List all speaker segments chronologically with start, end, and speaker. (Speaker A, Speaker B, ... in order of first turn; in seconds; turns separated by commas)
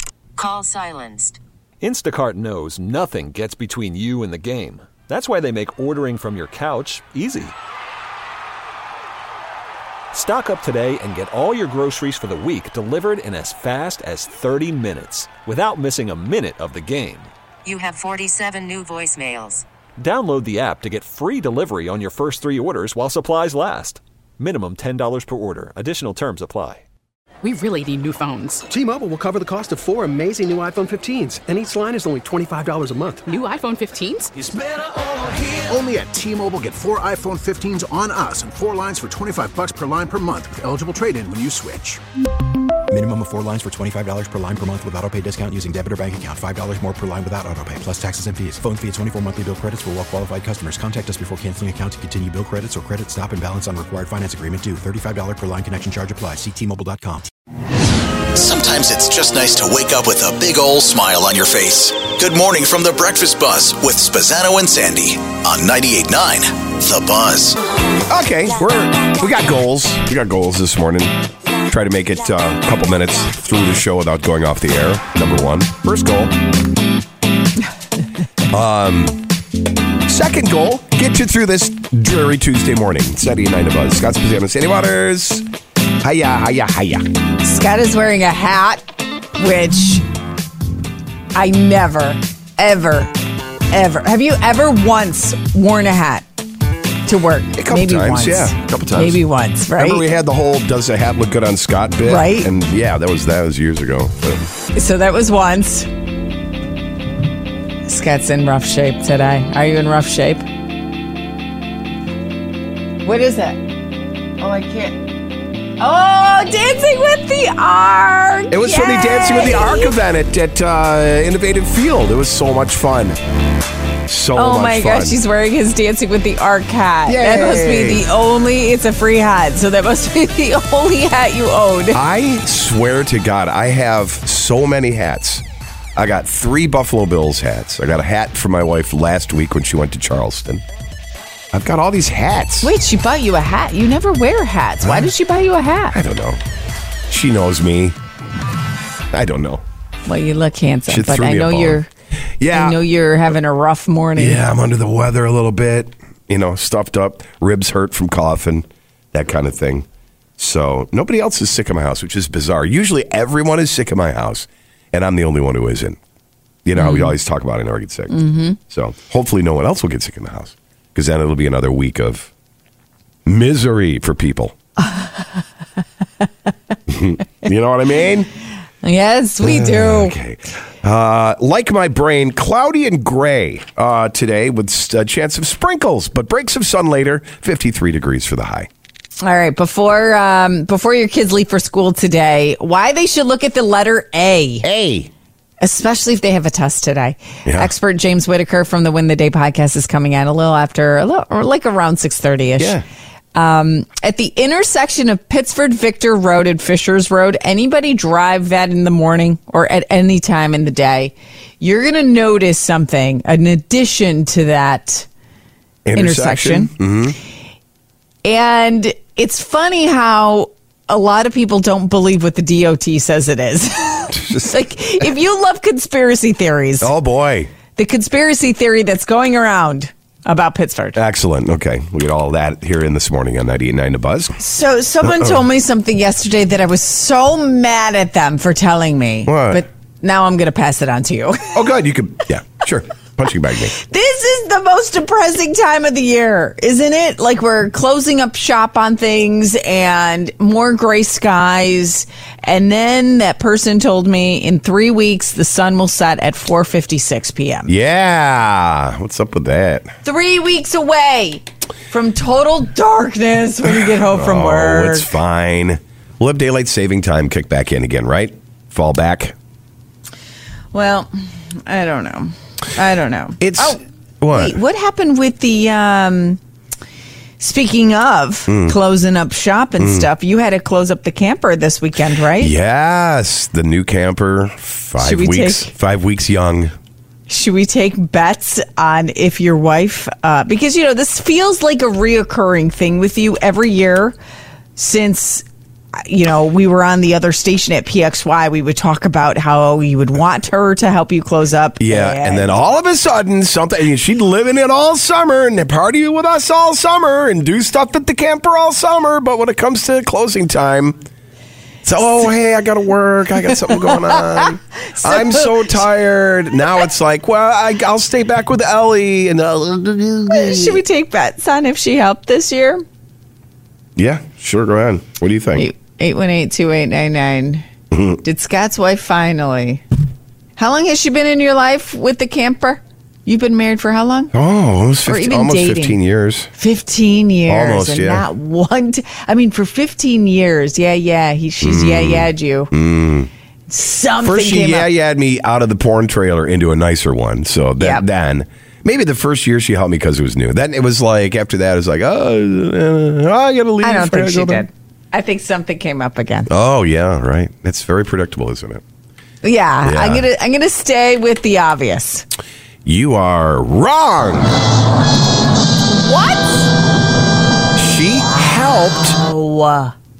Speaker A: 0.4-1.4, Speaker B: 1.8-7.5, Speaker B: 10.1-17.3, Speaker A: 17.6-19.6, Speaker B: 20.0-26.8, Speaker C: 27.4-28.6, Speaker D: 28.7-33.3, Speaker C: 33.3-34.3, Speaker E: 34.4-34.7, Speaker E: 35.5-42.0, Speaker F: 42.9-57.3, Speaker G: 58.3-67.6, Speaker H: 68.1-76.3, Speaker H: 78.5-79.2, Speaker H: 80.1-85.5, Speaker H: 86.0-87.1, Speaker I: 87.4-88.8, Speaker I: 89.4-90.0, Speaker I: 91.3-93.1, Speaker I: 93.7-96.3, Speaker I: 97.1-100.0, Speaker H: 97.6-99.2, Speaker H: 99.7-104.5, Speaker I: 102.0-102.5, Speaker I: 104.8-105.9, Speaker I: 107.9-110.4, Speaker I: 113.0-113.6, Speaker I: 114.4-115.0, Speaker I: 115.8-120.0, Speaker H: 118.5-123.2, Speaker H: 124.1-125.2, Speaker I: 124.4-132.0, Speaker H: 127.1-128.1, Speaker H: 131.9-135.4, Speaker H: 136.0-140.6, Speaker H: 141.5-142.7, Speaker I: 142.6-146.0, Speaker H: 144.8-145.1, Speaker H: 145.9-146.4, Speaker H: 147.1-148.0, Speaker H: 149.1-149.6, Speaker I: 150.1-151.9, Speaker H: 150.9-151.8, Speaker H: 152.4-152.8, Speaker I: 152.5-154.4, Speaker H: 154.2-159.9, Speaker H: 160.4-166.0, Speaker H: 166.7-172.3, Speaker I: 166.8-167.2, Speaker I: 168.1-168.6, Speaker H: 173.3-174.6, Speaker I: 174.8-175.2, Speaker H: 176.9-178.3, Speaker I: 178.8-180.2, Speaker H: 179.4-188.7, Speaker I: 189.2-194.7, Speaker H: 194.6-195.1, Speaker I: 195.6-202.8, Speaker H: 197.5-197.7, Speaker H: 202.6-202.8, Speaker I: 203.3-215.1, Speaker H: 215.8-217.2, Speaker I: 216.0-216.7, Speaker I: 218.2-226.9, Speaker H: 224.1-224.6, Speaker H: 226.8-227.5, Speaker I: 227.8-231.0, Speaker H: 231.0-234.4, Speaker I: 234.4-241.6, Speaker H: 235.0-235.4, Speaker H: 239.3-239.6, Speaker H: 241.5-243.8, Speaker I: 243.8-257.7, Speaker H: 257.7-259.9, Speaker I: 260.0-265.1, Speaker H: 263.6-269.4, Speaker I: 270.7-271.1, Speaker I: 271.7-273.8, Speaker H: 273.4-274.6, Speaker I: 274.3-276.4, Speaker I: 277.4-282.5, Speaker H: 278.5-278.8, Speaker H: 279.8-280.1, Speaker H: 282.4-286.7, Speaker I: 285.0-285.7, Speaker I: 287.3-294.2, Speaker I: 294.8-295.4, Speaker I: 296.0-302.6, Speaker H: 301.8-311.0, Speaker H: 311.8-320.8, Speaker I: 313.9-315.8, Speaker I: 320.3-322.8, Speaker H: 324.0-325.7, Speaker I: 325.6-327.6, Speaker H: 327.9-328.2, Speaker I: 328.2-329.8, Speaker I: 330.6-334.3, Speaker H: 334.3-336.5, Speaker I: 335.1-336.0, Speaker I: 336.6-342.7, Speaker H: 337.5-338.3, Speaker H: 341.6-343.3, Speaker I: 343.7-344.9, Speaker H: 344.2-354.7, Speaker I: 353.8-356.5, Speaker H: 356.5-358.8, Speaker I: 359.4-362.3, Speaker H: 359.8-360.2, Speaker H: 362.9-364.6, Speaker I: 366.0-366.7, Speaker H: 367.8-369.2, Speaker I: 369.0-369.9